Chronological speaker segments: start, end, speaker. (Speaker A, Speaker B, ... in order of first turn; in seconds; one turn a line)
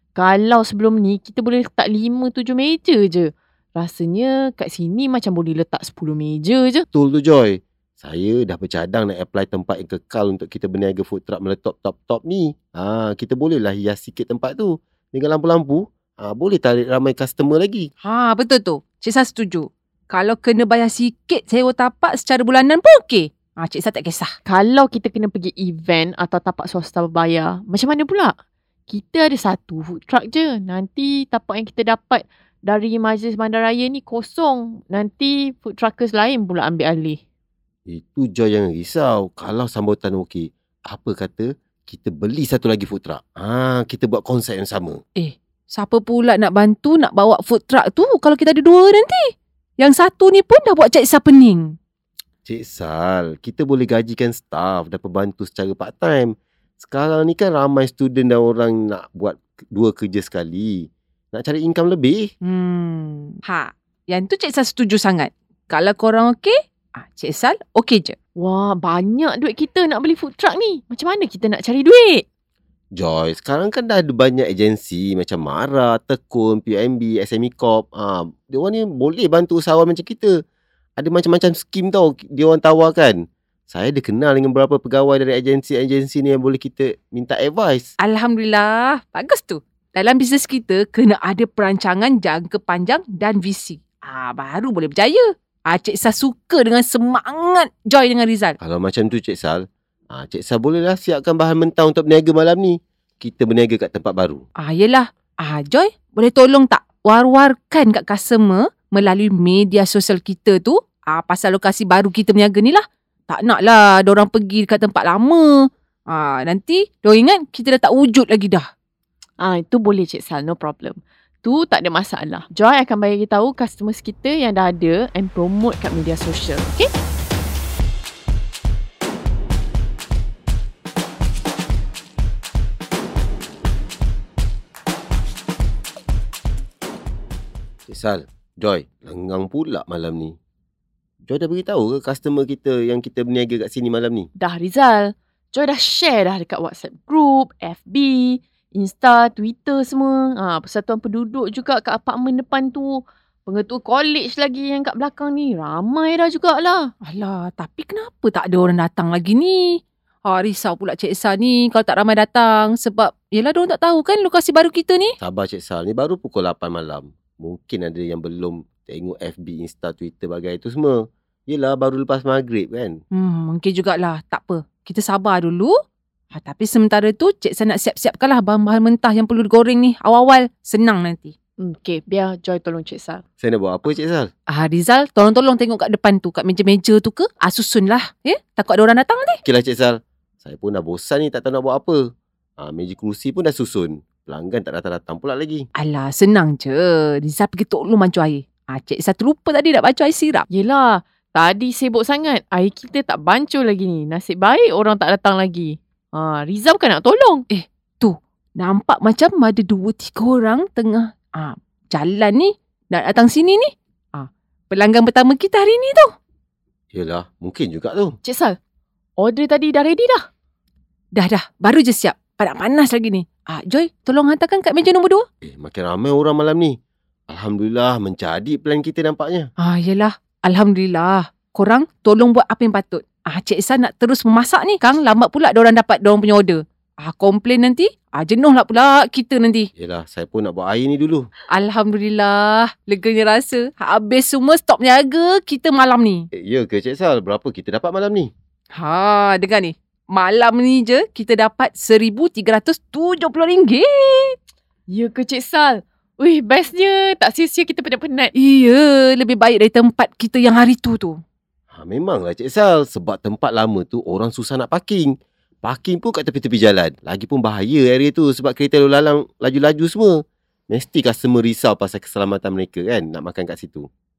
Speaker A: 0.2-6.8
Speaker B: 6.9-17.9
Speaker C: 18.0-24.3
Speaker A: 24.5-28.4
Speaker A: 28.9-37.2
Speaker B: 37.9-45.0
Speaker C: 45.1-51.8
Speaker B: 52.4-62.3
Speaker C: 62.4-68.2
Speaker A: 68.4-72.2
Speaker B: 73.0-80.4
Speaker B: 81.0-87.9
Speaker C: 88.0-98.6
Speaker B: 98.6-104.4
Speaker C: 104.6-118.7
Speaker A: 119.4-126.8
Speaker B: 137.9-140.4
Speaker B: 141.2-144.3
Speaker A: 144.4-156.9
Speaker C: 157.1-165.2
Speaker B: 165.2-173.0
Speaker C: 173.1-175.8
Speaker C: 176.3-181.3
Speaker A: 181.6-183.2
Speaker B: 183.4-184.3
Speaker C: 184.5-189.4
Speaker B: 189.4-195.7
Speaker C: 195.8-200.5
Speaker A: 200.5-207.4
Speaker C: 207.5-216.1
Speaker B: 216.9-218.2
Speaker A: 218.2-218.6
Speaker A: 219.2-220.3
Speaker C: 221.2-225.3
Speaker B: 225.4-226.8
Speaker B: 227.3-229.5
Speaker C: 229.6-239.7
Speaker B: 239.8-241.3
Speaker C: 241.5-246.3
Speaker B: 246.3-248.3
Speaker C: 248.7-254.4
Speaker A: 254.9-258.3
Speaker C: 258.4-261.2
Speaker B: 261.7-273.9